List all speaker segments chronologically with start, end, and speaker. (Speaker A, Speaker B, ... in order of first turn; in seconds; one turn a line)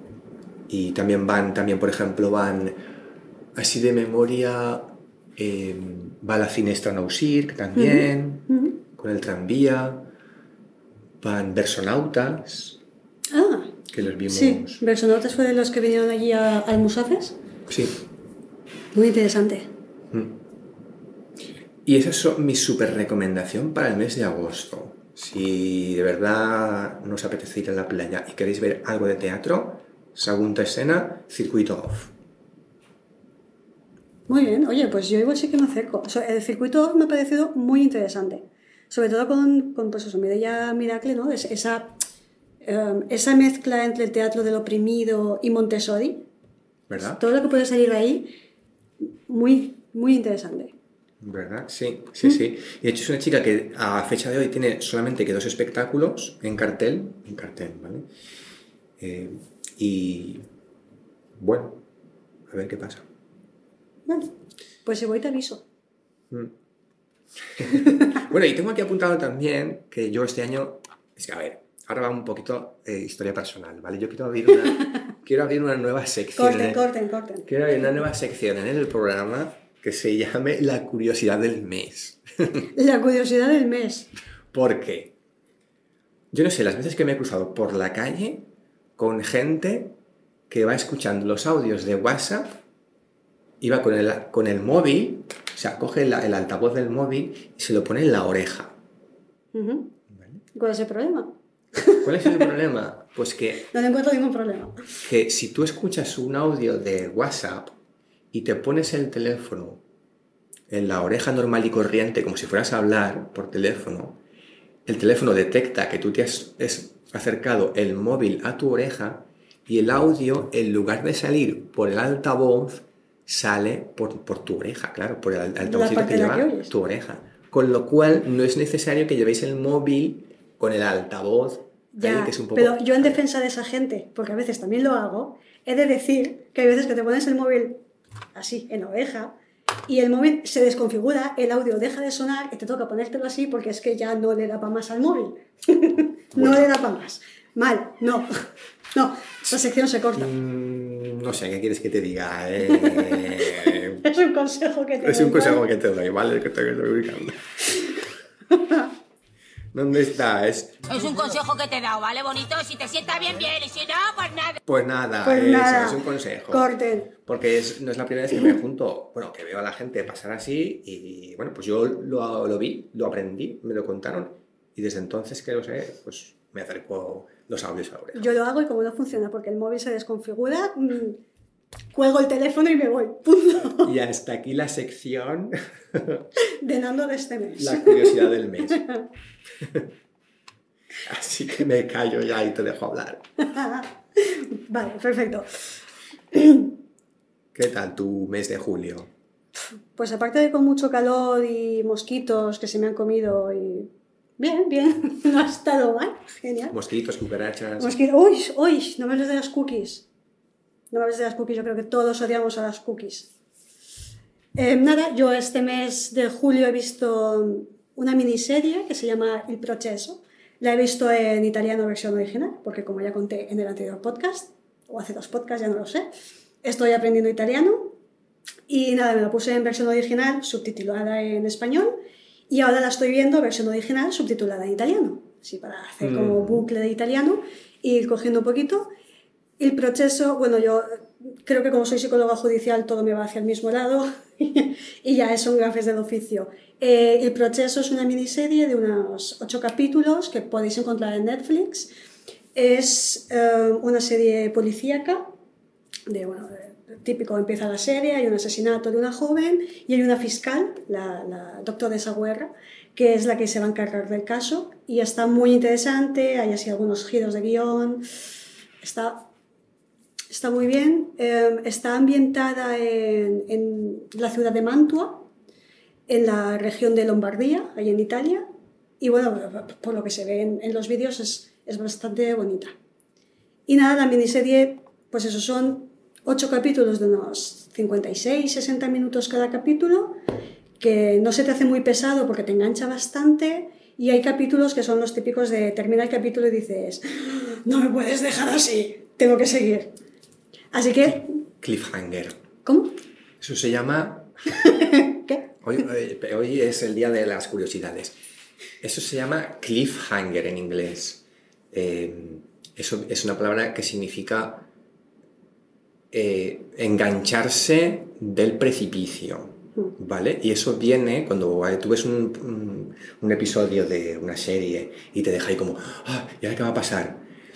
Speaker A: 0.7-2.8
Speaker A: 3.5-10.1
Speaker B: 7.8-8.8
Speaker A: 11.2-12.8
Speaker B: 13.3-13.8
Speaker A: 13.9-14.8
Speaker B: 14.3-17.4
Speaker A: 17.7-18.0
Speaker B: 18.9-19.7
Speaker A: 20.1-20.4
Speaker A: 21.8-32.1
Speaker B: 34.3-42.0
Speaker B: 42.6-46.2
Speaker A: 46.9-47.2
Speaker B: 47.2-48.3
Speaker B: 49.3-50.7
Speaker A: 51.2-58.1
Speaker A: 59.0-60.4
Speaker A: 61.4-61.8
Speaker A: 62.5-63.0
Speaker B: 64.1-65.6
Speaker A: 67.5-76.8
Speaker B: 76.3-77.5
Speaker A: 77.4-82.7
Speaker B: 82.8-84.1
Speaker A: 84.5-85.1
Speaker A: 86.3-89.9
Speaker A: 90.5-92.6
Speaker A: 93.6-98.8
Speaker B: 99.5-99.9
Speaker A: 100.1-100.4
Speaker B: 100.5-102.0
Speaker A: 102.0-103.7
Speaker B: 103.7-104.9
Speaker A: 105.0-107.8
Speaker A: 108.3-109.8
Speaker A: 110.7-114.2
Speaker A: 114.8-133.2
Speaker B: 125.6-126.7
Speaker B: 131.9-137.8
Speaker B: 138.3-139.3
Speaker B: 139.9-150.3
Speaker A: 146.3-146.7
Speaker A: 150.2-154.1
Speaker B: 152.6-155.6
Speaker A: 155.0-157.8
Speaker B: 158.5-158.9
Speaker A: 159.7-160.8
Speaker C: 160.9-164.6
Speaker A: 164.6-166.7
Speaker B: 165.2-167.1
Speaker A: 167.2-178.3
Speaker B: 178.1-181.2
Speaker B: 181.9-183.9
Speaker A: 183.7-186.3
Speaker B: 186.4-189.0
Speaker A: 187.6-188.8
Speaker A: 189.6-189.8
Speaker A: 191.0-193.2
Speaker B: 193.4-195.8
Speaker B: 196.3-196.8
Speaker A: 197.5-199.1
Speaker B: 199.6-206.8
Speaker A: 206.7-207.9
Speaker B: 207.8-210.1
Speaker B: 210.9-213.3
Speaker B: 214.6-226.1
Speaker B: 226.6-227.9
Speaker B: 228.7-231.9
Speaker B: 232.5-238.9
Speaker A: 236.0-236.7
Speaker B: 239.6-251.9
Speaker B: 252.5-255.2
Speaker B: 256.1-268.0
Speaker B: 268.8-269.3
Speaker B: 270.3-275.3
Speaker B: 276.1-278.4
Speaker B: 279.0-282.7
Speaker B: 283.7-290.2
Speaker B: 290.8-299.9
Speaker B: 300.7-301.3
Speaker A: 301.1-302.4
Speaker B: 302.6-302.9
Speaker A: 303.4-304.6
Speaker B: 304.6-305.4
Speaker A: 305.6-308.1
Speaker A: 308.8-314.7
Speaker A: 316.1-327.2